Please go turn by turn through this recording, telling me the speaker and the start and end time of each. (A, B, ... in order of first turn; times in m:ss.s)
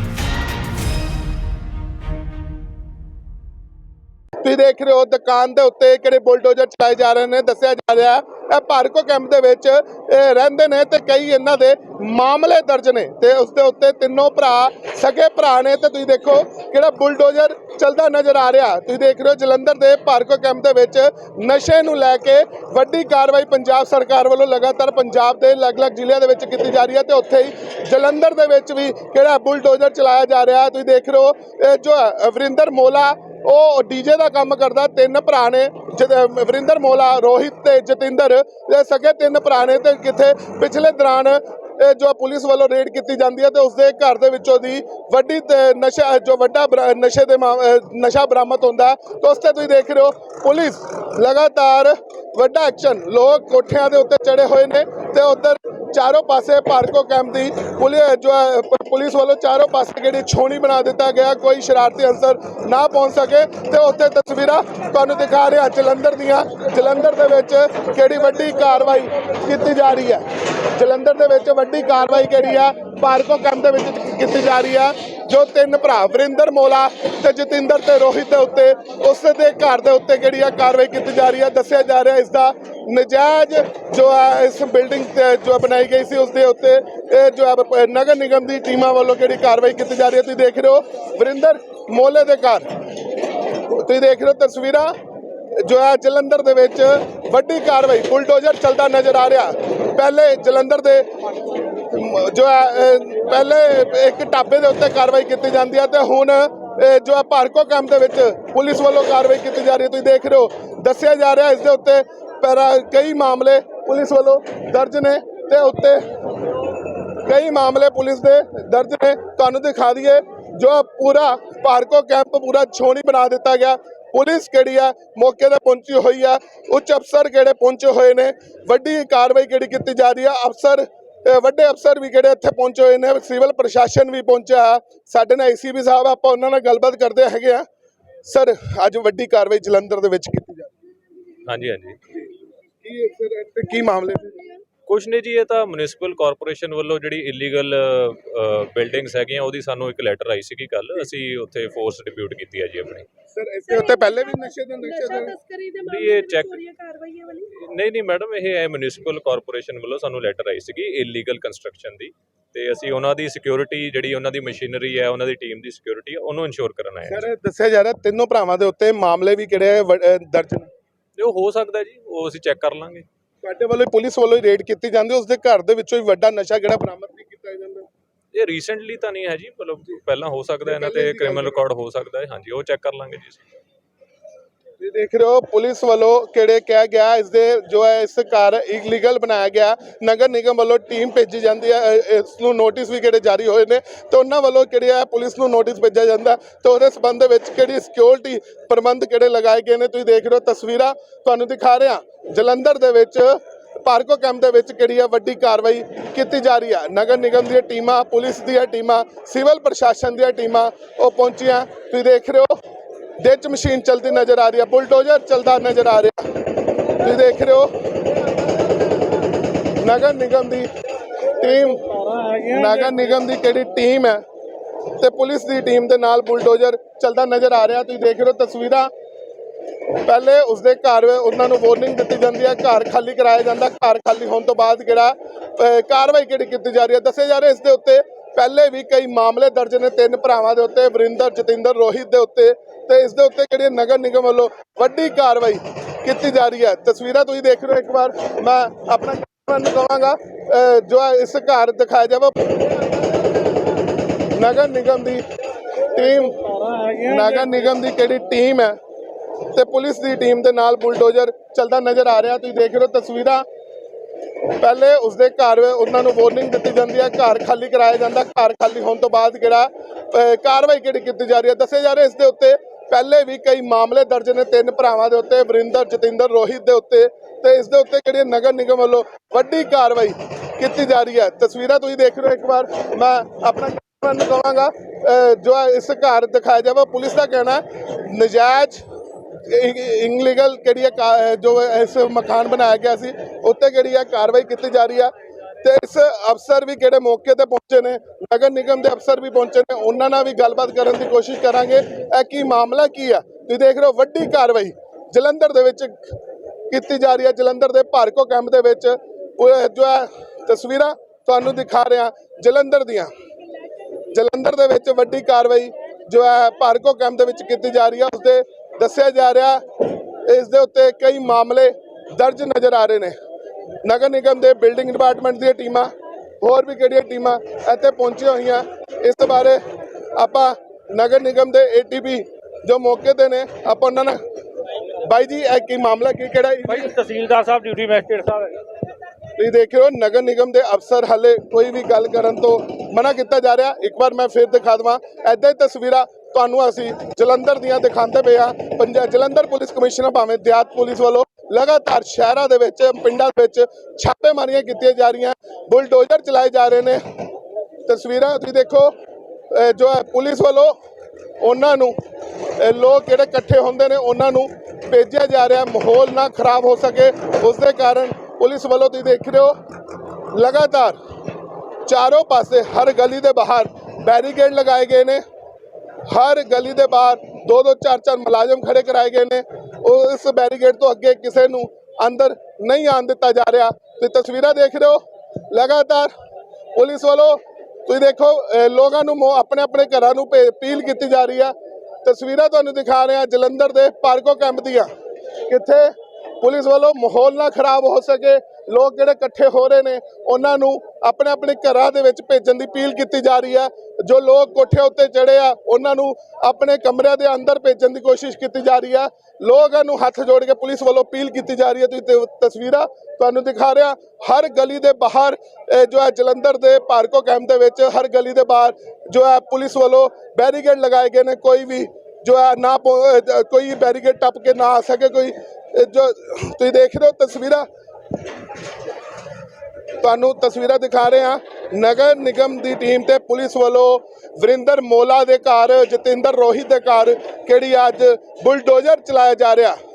0:04.4-1:32.7 A
1:33.6-1:34.9 A
1:35.6-1:41.1 A
1:41.7-1:56.1 A
1:57.2-2:17.6 A
2:18.2-2:20.7 A
2:21.5-2:22.0 B
2:22.8-2:24.5 A
2:24.9-2:33.1 B
2:33.3-2:35.4 A
2:35.8-2:36.7 B
2:37.4-2:47.3 B
2:47.1-2:50.7 A
2:51.2-2:53.0 B
2:53.4-2:57.9 A
2:58.3-3:03.4 B
3:00.6-3:01.6 A
3:04.8-3:32.5 A
3:33.2-3:36.2 A
3:37.0-3:37.7 A
3:39.8-3:40.7 A
3:41.4-3:41.8 A
3:41.9-3:43.1 C
3:42.5-3:44.2 A
3:45.0-3:48.9 A
3:50.0-4:12.5 A
4:14.4-4:15.2 A
4:15.9-4:16.4 A
4:16.0-4:17.7 C
4:17.0-4:18.8 A
4:19.5-4:23.4 A
4:24.5-4:48.8 A
4:49.4-5:06.1 A
5:06.7-5:13.1 A
5:14.1-5:19.6 A
5:20.2-5:23.1 A
5:23.8-5:29.6 A
5:30.2-5:34.2 A
5:35.0-5:36.9 A
5:36.7-5:38.6 C
5:39.4-5:57.0 A
5:57.9-5:58.9 A
5:59.5-6:00.7 A
6:01.4-6:02.0 A
6:02.6-6:09.5 A
6:10.3-6:11.0 A
6:11.9-6:15.2 A
6:16.1-6:26.1 A
6:26.8-6:34.9 A
6:35.5-7:07.6 A
7:10.0-7:19.8 A